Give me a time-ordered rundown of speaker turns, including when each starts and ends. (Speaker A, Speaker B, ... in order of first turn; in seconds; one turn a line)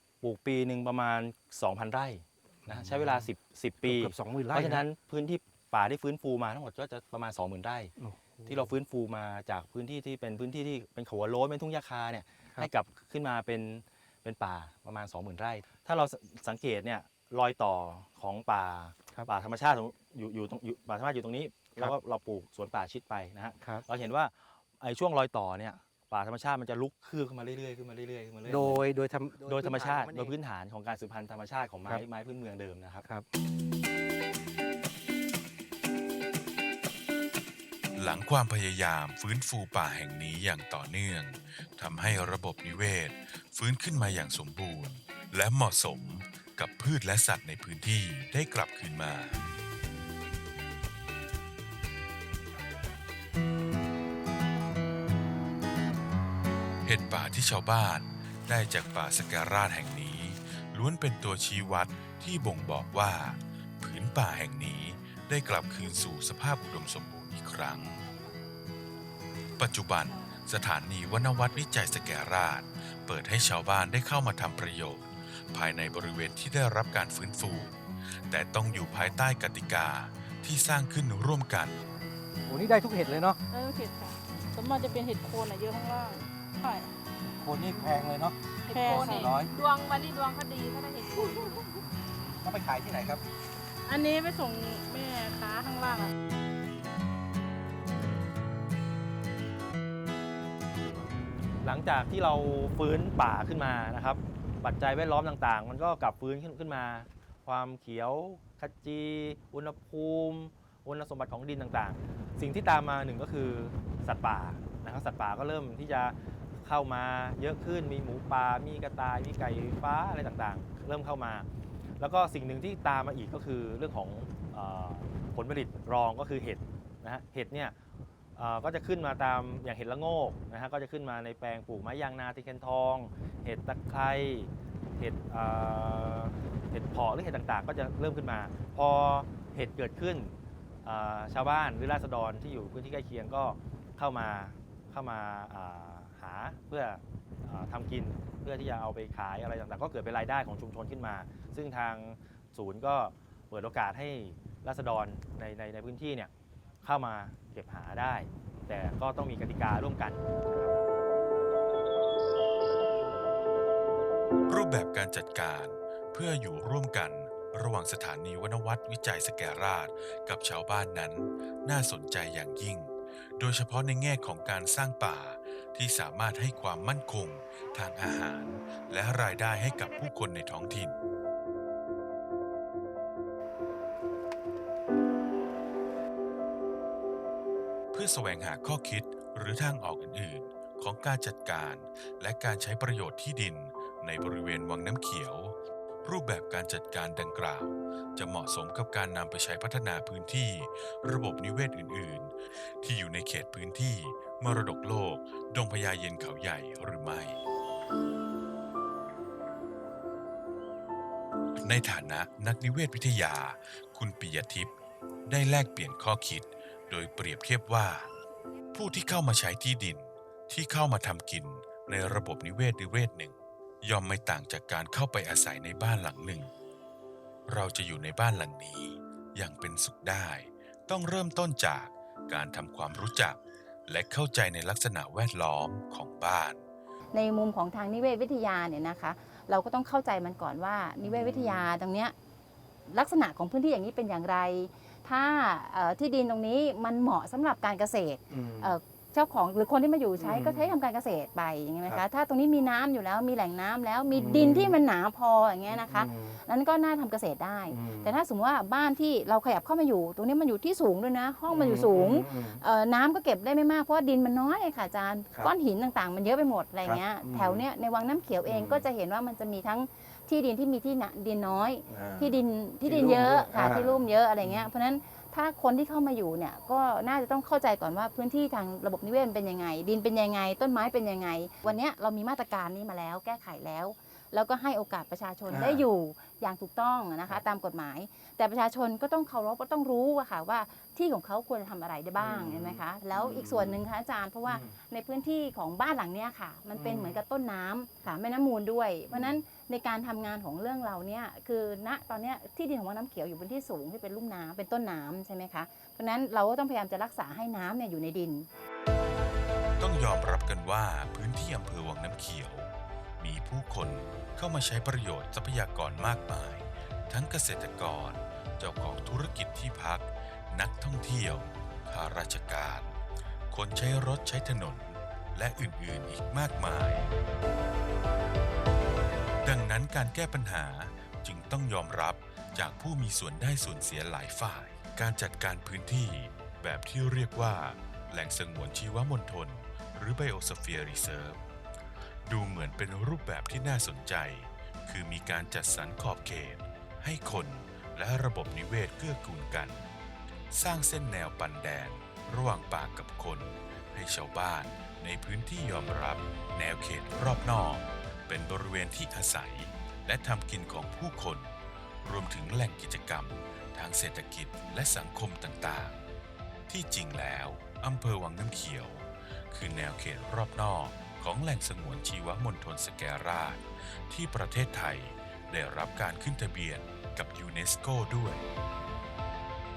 Speaker A: 0.2-7.9
Speaker B: 2.7-3.3
Speaker B: 3.8-4.9
Speaker B: 8.0-8.7
Speaker A: 8.5-28.8
Speaker B: 28.4-30.4
Speaker A: 29.4-33.0
Speaker C: 38.0-49.4
Speaker C: 56.8-68.0
Speaker C: 69.6-81.8
Speaker B: 82.5-83.4
Speaker D: 83.5-86.9
Speaker B: 87.2-89.5
Speaker D: 88.7-91.8
Speaker B: 91.8-93.2
Speaker D: 93.9-96.1
Speaker A: 101.6-121.5
Speaker A: 122.0-127.7
Speaker A: 128.4-156.3
Speaker A: 156.8-160.8
Speaker C: 164.5-181.0
Speaker C: 187.9-207.4
Speaker C: 211.6-214.7
Speaker C: 215.3-218.1
Speaker C: 218.7-226.5
Speaker C: 227.5-236.6
Speaker E: 237.1-242.1
Speaker B: 241.0-241.7
Speaker E: 242.9-308.5
Speaker B: 248.3-248.8
Speaker B: 250.2-250.7
Speaker B: 254.1-254.8
Speaker B: 255.7-256.4
Speaker B: 257.7-258.2
Speaker B: 261.5-262.6
Speaker B: 266.8-267.7
Speaker B: 268.4-268.9
Speaker B: 271.9-274.7
Speaker B: 285.5-285.9
Speaker B: 292.2-293.8
Speaker B: 294.5-294.8
Speaker B: 296.8-297.2
Speaker B: 299.1-299.4
Speaker C: 309.8-323.0
Speaker C: 323.5-327.1
Speaker C: 329.4-341.4
Speaker C: 342.3-349.9
Speaker C: 350.5-366.0
Speaker C: 366.7-378.4